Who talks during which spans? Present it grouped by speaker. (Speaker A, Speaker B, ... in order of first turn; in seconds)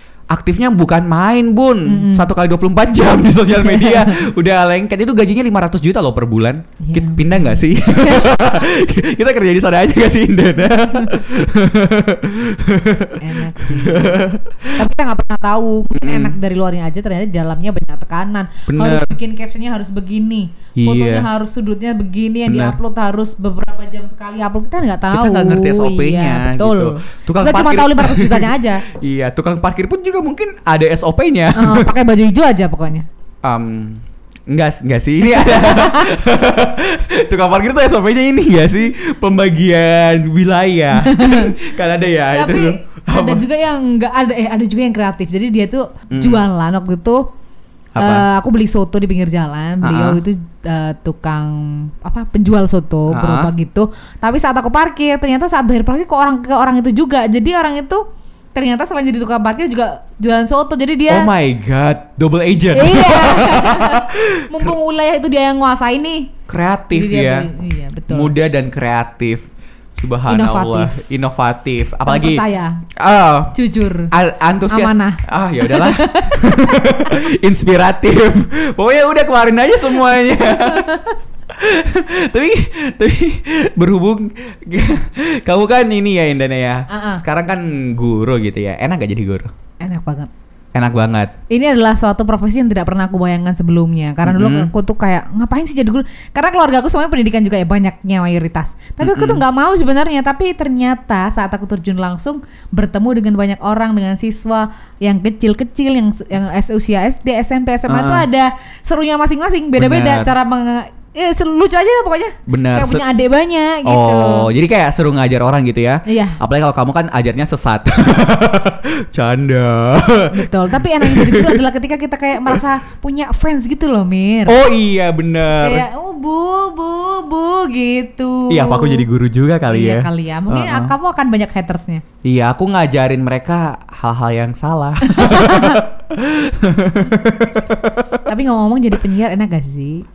Speaker A: 0.3-14.8, 15.9-16.4, 18.7-19.2, 20.8-21.3, 22.5-22.8, 25.1-31.9, 33.4-43.5, 46.1-46.4, 48.0-48.3, 49.8-50.2, 53.1-53.5, 61.1-64.8, 66.5-67.5, 68.1-72.4, 73.0-73.6, 74.1-80.9, 81.5-89.5, 90.8-91.3, 94.2-94.7, 99.0-99.4, 107.9-108.3, 109.8-110.3, 112.5-113.0, 113.8-121.6, 124.5-125.9, 128.5-130.9, 132.2-138.2
Speaker B: 1.9-2.3, 3.7-4.2, 6.8-8.7, 13.2-14.2, 14.8-28.9, 31.6-33.1, 35.3-36.1, 41.0-41.5, 42.3-47.3, 48.0-58.0, 58.5-61.3, 62.7-66.3, 66.9-68.3, 70.3-71.0, 72.1-72.8, 73.5-74.1, 74.7-77.1, 86.9-87.2, 89.8-90.3, 91.5-114.5, 116.1-116.4, 120.3-124.6, 125.6-129.1, 129.7-132.0, 135.1-135.8, 138.3-140.0